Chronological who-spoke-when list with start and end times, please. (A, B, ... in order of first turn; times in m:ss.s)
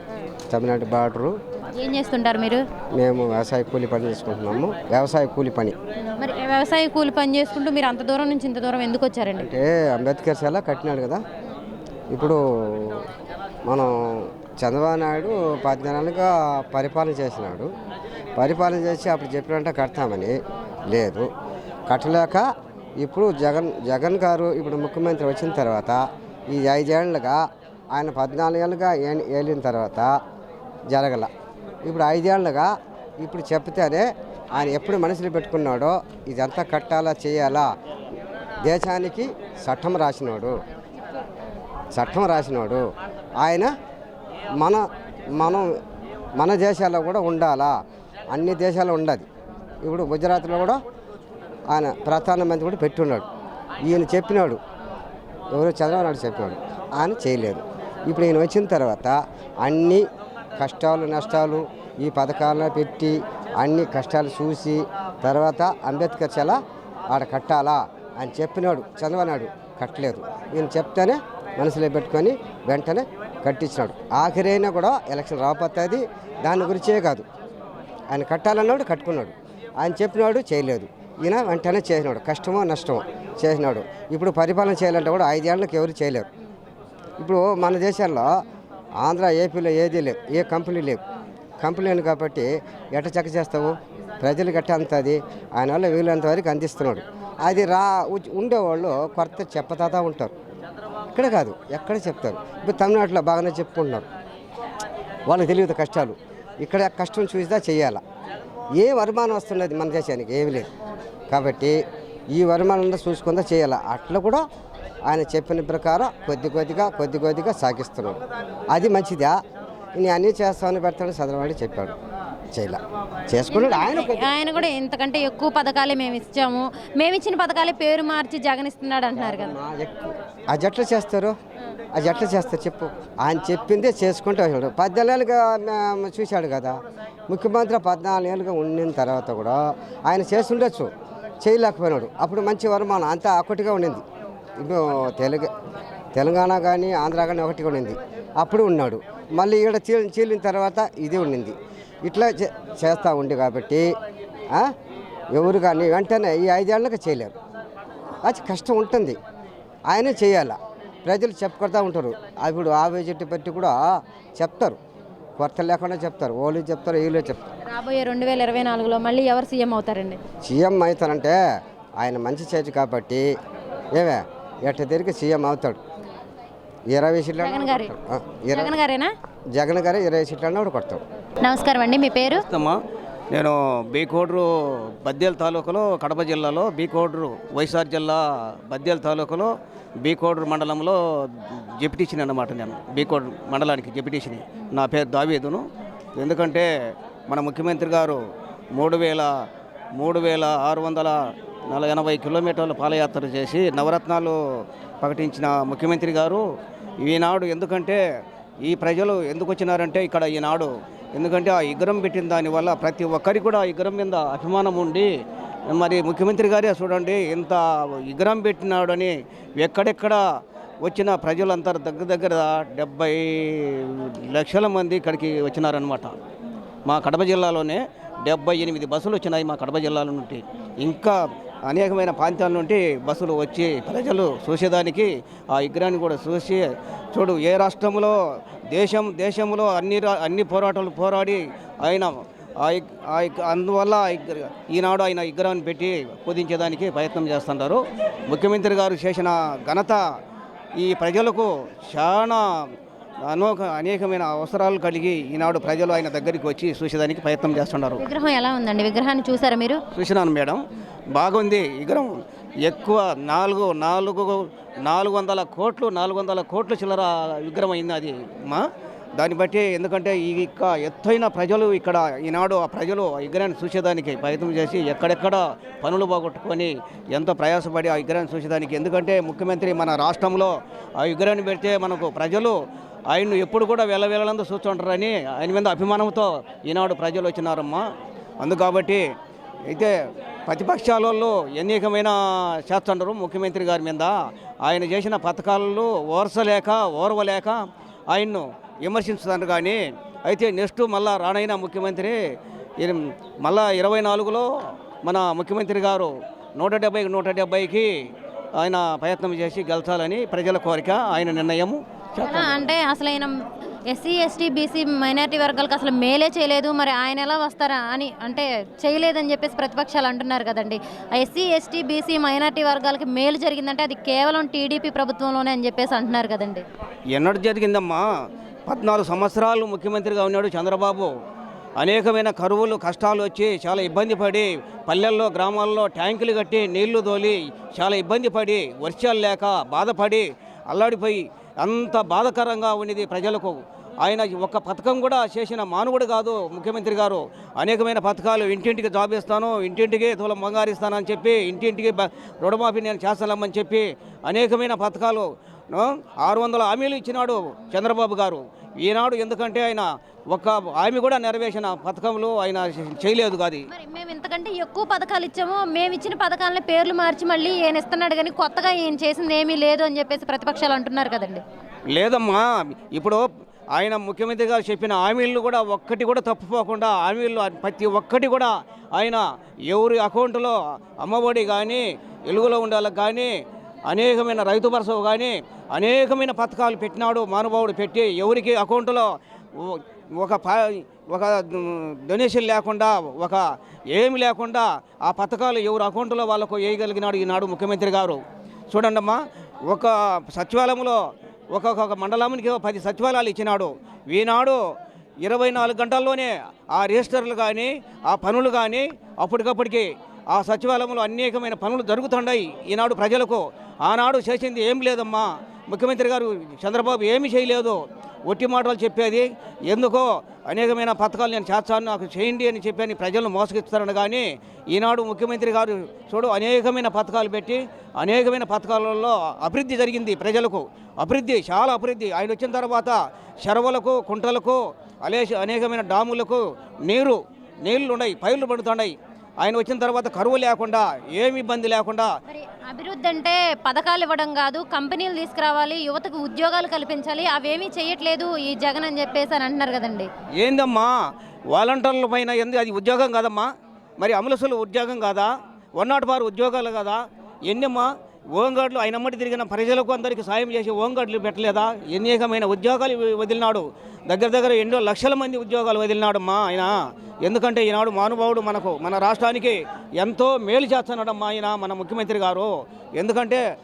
0:00.5-0:01.3 A
0:01.8-0:02.6 B
0:03.0-0:05.7 A
0:06.2-0:09.5 B
0:09.4-0:11.2 A
0:12.1-0:13.1 A
0:13.6-0:17.7 A
0:18.3-0:20.4 A
0:20.9-0:21.3 A
0:21.9-0:22.5 A
0:23.0-0:27.4 A
0:27.9-0:30.1 A
0:30.9-0:31.3 A
0:31.8-0:37.7 A
0:38.6-0:40.6 A
0:41.9-0:42.8 A
0:43.4-0:43.7 A
0:44.6-0:45.7 A
0:46.4-0:47.7 A
0:48.3-0:49.3 A
0:49.8-0:50.8 A
0:51.7-0:53.3 A
0:53.8-0:54.6 A
0:55.5-1:00.0 A
1:00.6-1:06.6 A
1:07.1-1:17.2 A
1:18.1-1:26.3 A
1:27.2-1:28.3 A
1:29.0-1:31.0 A
1:31.6-1:40.4 A
1:41.1-1:44.1 A
1:45.3-1:48.0 A
1:48.8-1:50.7 A
1:51.3-1:51.8 A
1:52.3-1:54.4 A
1:55.1-1:58.2 A
1:58.7-1:59.3 A
1:59.9-2:02.0 A
2:02.5-2:04.4 A
2:03.5-2:09.6 B
2:09.1-2:11.3 A
2:11.9-2:16.7 A
2:17.3-2:20.9 A
2:21.4-2:24.0 A
2:24.6-2:25.5 A
2:26.1-2:33.9 A
2:35.3-2:37.3 A
2:38.2-2:39.2 A
2:39.9-2:43.8 A
2:44.4-2:44.8 A
2:45.4-2:47.4 A
2:47.7-2:50.2 B
2:50.4-2:51.4 A
2:52.0-2:53.2 A
2:53.9-2:55.8 A
2:56.9-2:58.7 A
2:57.4-2:57.9 B
2:58.5-2:59.1 B
2:59.5-3:01.0 A
3:01.4-3:02.4 B
3:02.4-3:02.8 C
3:03.3-3:15.6 C
3:16.2-3:16.7 C
3:17.3-3:18.2 C
3:18.7-3:19.3 C
3:20.0-3:21.2 C
3:21.7-3:24.4 C
3:25.0-3:26.4 C
3:27.0-3:28.0 C
3:28.6-3:35.1 C
3:35.7-3:40.2 C
3:40.8-3:46.1 C
3:46.8-3:51.2 C
3:51.7-3:56.6 C
3:57.1-3:58.1 C
3:58.7-4:02.1 C
4:02.6-4:10.0 C
4:10.8-4:12.4 C
4:13.3-4:18.0 C
4:18.0-4:19.8 B
4:19.9-4:22.1 C
4:22.6-4:28.6 C
4:29.2-4:42.5 C
4:43.1-4:47.8 C
4:48.4-4:49.0 C
4:49.7-4:57.6 C
4:58.1-5:02.2 C
5:02.8-5:04.5 C
5:05.0-5:07.9 C
5:08.6-5:12.7 C
5:12.2-5:13.4 B
5:13.9-5:26.6 B
5:27.1-5:28.0 C
5:28.7-5:31.1 C
5:31.8-6:03.7 C
6:03.7-6:11.4 B
6:11.9-6:23.3 C
6:23.9-6:44.6 C
6:45.2-7:22.1 C
7:22.3-7:30.1 B
7:30.4-7:30.9 C
7:31.5-7:53.4 C